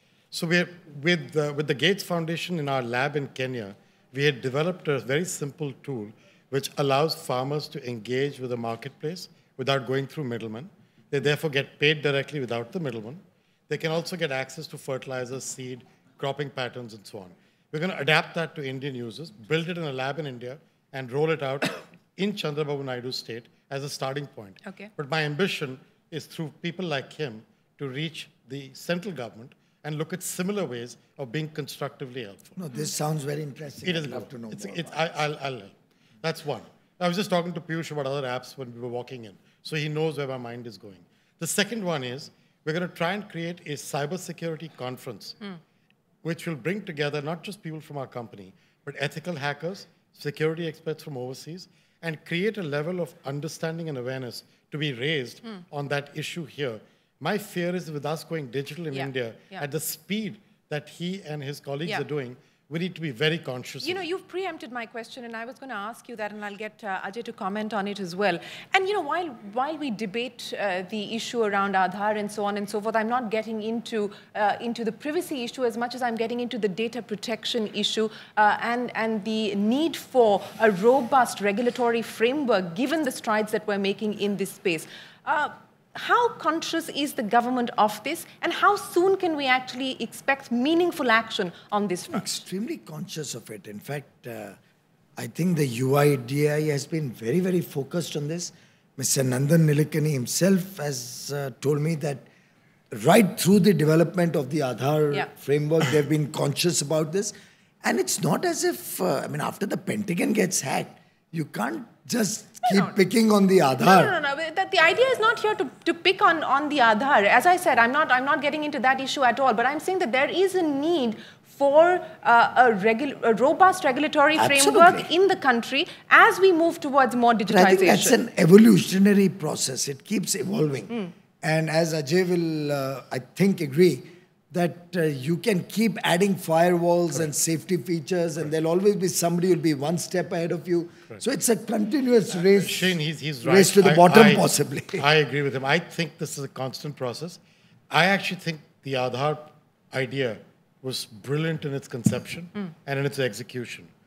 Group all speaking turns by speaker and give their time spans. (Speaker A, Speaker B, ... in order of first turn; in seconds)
Speaker A: 0.3-32.6, 33.9-45.4, 46.2-64.0, 142.5-144.5, 145.0-147.4, 147.9-153.9
Speaker B: 32.6-35.0, 92.1-94.6, 95.2-102.2, 102.9-114.2, 124.4-125.1, 127.5-145.1
Speaker C: 58.9-59.6, 63.8-92.4, 112.6-113.0, 113.8-128.2